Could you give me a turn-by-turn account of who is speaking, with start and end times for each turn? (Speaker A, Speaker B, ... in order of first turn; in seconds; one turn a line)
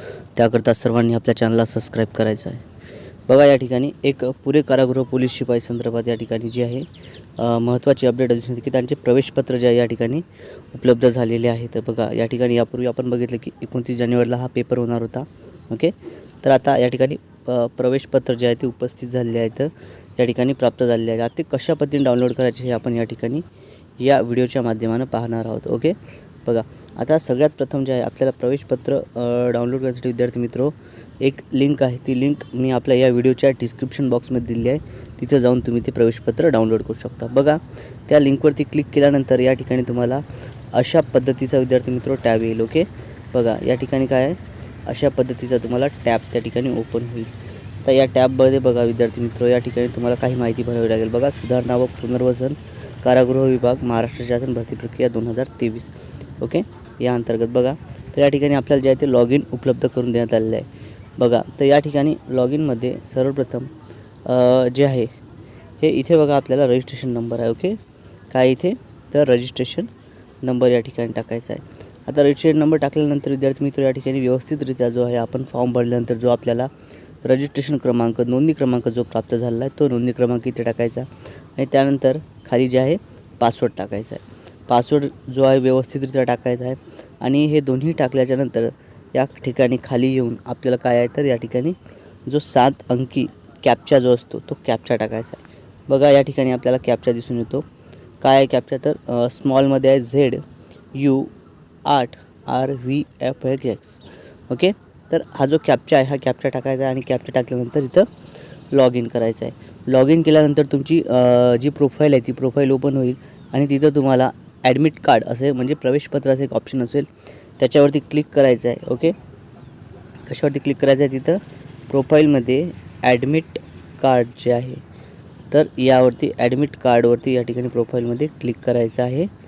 Speaker A: 0.3-2.6
Speaker A: 3.3-6.8
Speaker A: 7.4-23.4
Speaker A: 24.0-40.2
Speaker A: 40.7-47.3
Speaker A: 47.8-63.7
Speaker A: 64.2-65.1
Speaker A: 65.8-67.8
Speaker A: 68.3-69.9
Speaker A: 70.4-76.7
Speaker A: 77.2-97.6
Speaker A: 98.2-100.4
Speaker A: 100.9-101.3
Speaker A: 101.8-108.1
Speaker A: 108.7-119.1
Speaker A: 120.2-124.8
Speaker A: 125.5-129.3